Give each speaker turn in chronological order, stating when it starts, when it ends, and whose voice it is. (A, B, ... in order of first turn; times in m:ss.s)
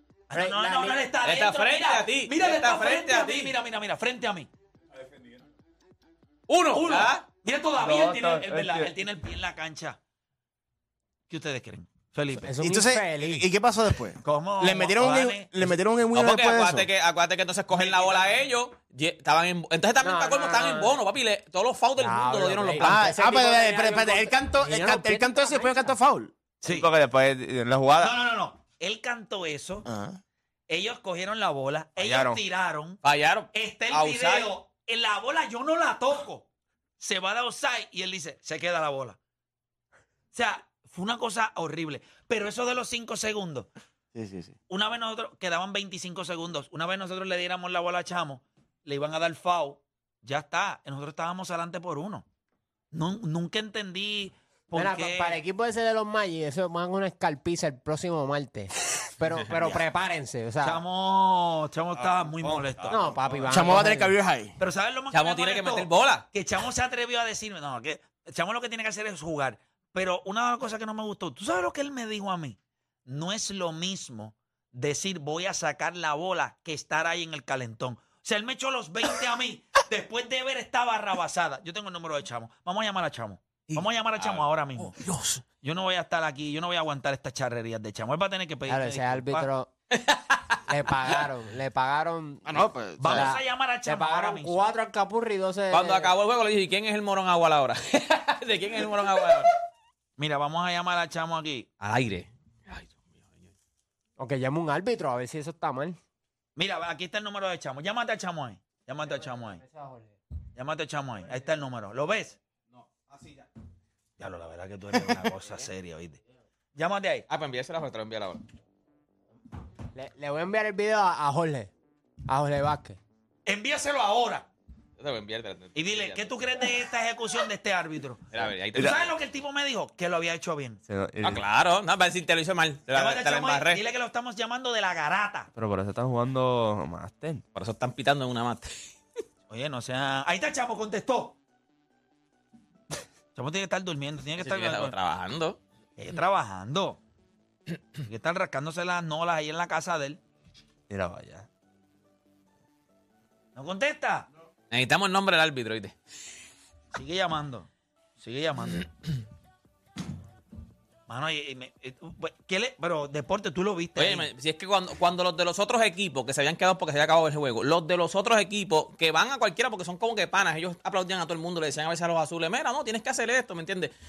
0:00.3-0:04.5 A
0:00.3-0:01.0 B
0:01.2-0:03.5 C
0:06.5-0:07.2 C
0:06.7-0:10.0 A
0:07.8-0:08.9 D
0:11.3-0:12.5 A
0:12.4-0:13.5 B
0:12.6-0:16.9 E
0:14.2-0:15.5 A
0:16.1-0:23.0 C
0:17.7-0:18.4 A
0:20.0-0:20.9 B
0:22.0-0:25.9 B
0:22.8-0:26.3 E
0:26.6-0:26.9 A
0:26.6-0:28.2 D
0:28.0-0:29.9 A
0:29.8-0:30.2 E
0:30.7-0:33.0 A
0:32.0-0:32.4 D
0:33.0-0:34.5 C
0:33.5-0:36.4 A
0:37.0-0:39.2 A
0:40.3-0:43.7 A
0:44.1-0:44.6 E
0:44.7-0:52.2 A
0:52.9-0:55.4 A
0:54.7-1:00.8 B
1:00.6-1:03.0 A
1:01.9-1:03.6 D
1:02.9-1:04.2 B
1:03.5-1:04.6 E
1:04.6-1:24.9 A
1:05.1-1:06.3 C
1:24.2-1:25.4 C
1:25.6-1:29.5 A
1:28.7-1:29.7 B
1:29.9-1:30.6 C
1:30.7-1:36.1 B
1:32.4-1:33.3 E
1:33.0-1:34.6 A
1:35.7-1:39.5 C
1:40.2-1:41.7 A
1:41.8-1:43.5 C
1:44.2-1:46.0 B
1:46.6-1:49.6 A
1:49.5-1:50.2 B
1:50.6-1:52.4 A
1:54.2-1:56.2 A
1:56.8-1:57.2 A
1:57.3-1:58.4 C
1:59.9-2:01.7 B
2:02.3-2:03.0 B
2:03.4-2:04.4 A
2:05.0-2:06.3 C
2:05.8-2:10.8 A
2:08.3-2:09.1 C
2:10.9-2:11.4 D
2:11.2-2:13.8 C
2:12.9-2:15.5 A
2:15.6-2:17.4 D
2:17.5-2:18.9 C
2:19.5-2:21.4 A
2:23.3-2:24.9 A
2:24.4-2:25.6 C
2:26.0-2:27.0 A
2:28.0-2:30.2 A
2:30.9-2:31.5 D
2:33.6-2:34.3 A
2:34.7-2:36.0 C
2:36.9-2:37.7 A
2:38.2-2:38.9 A
2:41.1-2:44.3 A
2:44.0-2:53.9 C